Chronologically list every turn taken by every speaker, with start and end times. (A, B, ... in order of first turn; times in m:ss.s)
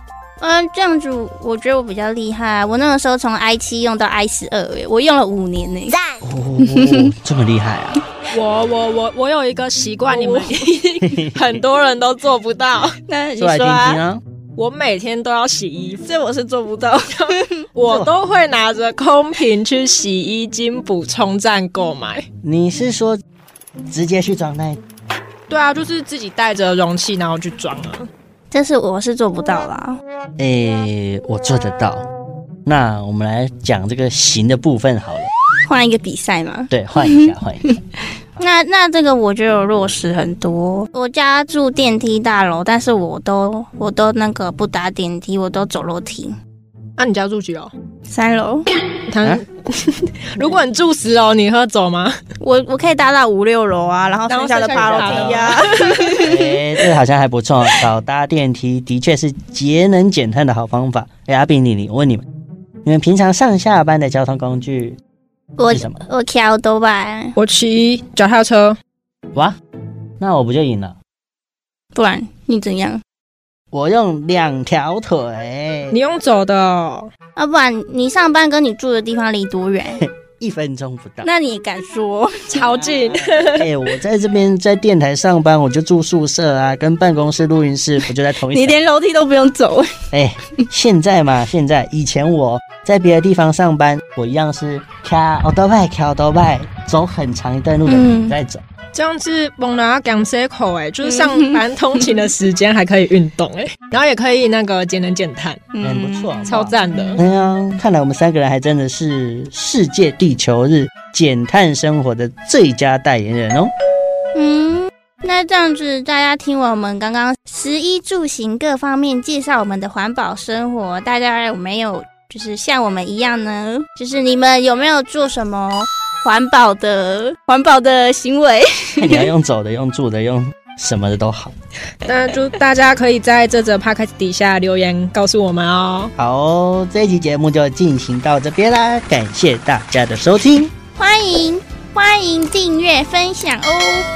0:00.4-0:07.1 A
0:06.2-0:08.0 B
0:08.3-0:12.9 C
0:10.1-0:10.5 A
0:11.0-0:11.4 B
0:13.0-0:14.0 A
0:13.4-0:14.2 B
0:14.6-0:16.1 C
0:16.0-0:17.6 A
0:17.3-0:22.2 C
0:17.8-0:18.1 B
0:22.4-0:23.2 B
0:23.9-0:24.8 B
0:25.5-0:28.1 C
0:28.5-0:30.0 A
0:30.4-0:32.0 B
0:32.6-0:35.3 B
0:35.6-0:37.7 A
0:36.7-0:37.7 B
0:38.4-0:46.3 A
0:47.0-0:47.7 C
0:48.1-0:48.7 A
0:49.1-0:52.2 C
0:52.4-0:56.5 A
0:54.3-0:56.2 C
0:54.7-0:55.6 B
0:56.2-1:02.2 B
1:02.8-1:05.0 B
1:05.6-1:07.4 A
1:05.7-1:06.0 B
1:07.4-1:08.8 C
1:10.2-1:11.0 B
1:11.9-1:13.0 A
1:13.7-1:16.0 B
1:15.9-1:17.1 C
1:17.4-1:20.0 A
1:20.0-1:21.3 B
1:21.2-1:22.6 A
1:22.5-1:23.7 C
1:22.5-1:28.8 B
1:28.4-1:29.9 A
1:30.1-1:38.6 B
1:37.9-1:38.3 A
1:38.9-1:45.6 C
1:41.0-1:42.0 A
1:45.7-1:47.2 A
1:45.8-1:53.7 B
1:46.5-1:47.2 C
1:54.3-2:09.3 A
2:09.0-2:11.5 B
2:12.0-2:16.1 C
2:16.2-2:20.7 B
2:21.0-2:24.1 A